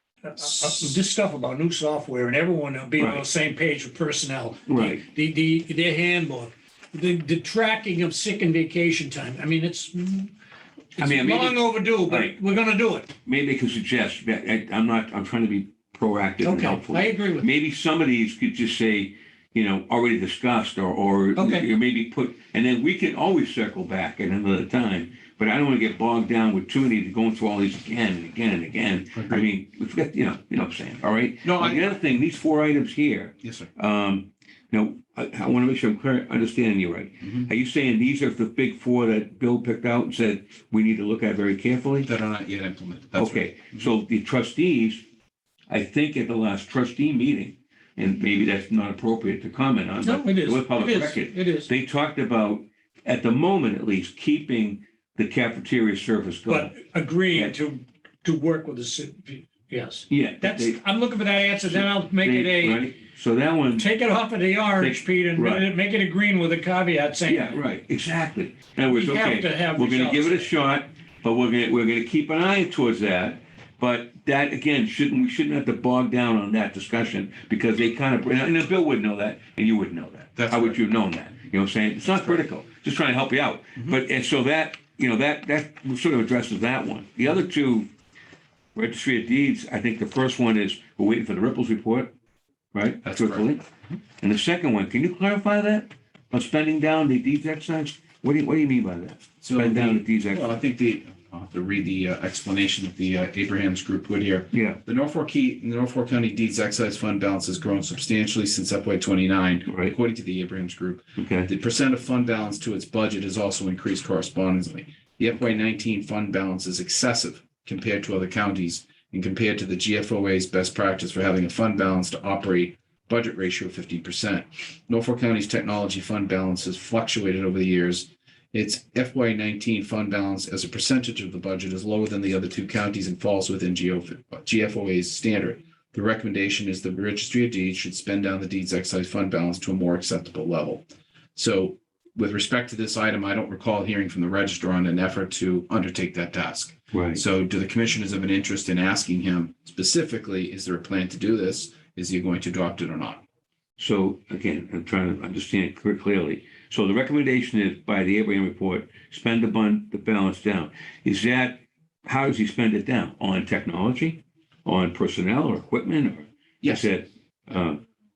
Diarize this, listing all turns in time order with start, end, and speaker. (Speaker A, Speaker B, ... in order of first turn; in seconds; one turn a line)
Speaker A: 0.2-10.3
Speaker B: 3.0-3.2
Speaker B: 4.7-5.0
Speaker A: 11.0-13.1
Speaker B: 11.0-12.3
Speaker B: 13.3-42.1
Speaker A: 16.4-17.5
Speaker A: 21.4-21.7
Speaker C: 29.1-29.5
Speaker C: 31.4-32.0
Speaker C: 33.4-33.7
Speaker C: 37.2-37.5
Speaker C: 42.0-43.9
Speaker B: 43.2-45.0
Speaker B: 45.7-56.8
Speaker A: 50.0-51.7
Speaker A: 56.5-62.9
Speaker B: 60.1-60.8
Speaker B: 61.6-63.9
Speaker A: 63.8-67.6
Speaker B: 64.8-65.7
Speaker B: 67.3-87.9
Speaker A: 68.9-70.5
Speaker C: 80.4-80.8
Speaker C: 82.1-82.4
Speaker B: 88.8-92.1
Speaker B: 92.7-93.7
Speaker C: 93.0-93.5
Speaker B: 94.2-100.6
Speaker C: 99.4-140.8
Speaker B: 104.5-104.8
Speaker B: 109.7-110.0
Speaker B: 111.2-111.5
Speaker C: 141.3-153.2
Speaker B: 146.9-147.2
Speaker B: 153.8-167.8
Speaker C: 166.6-166.9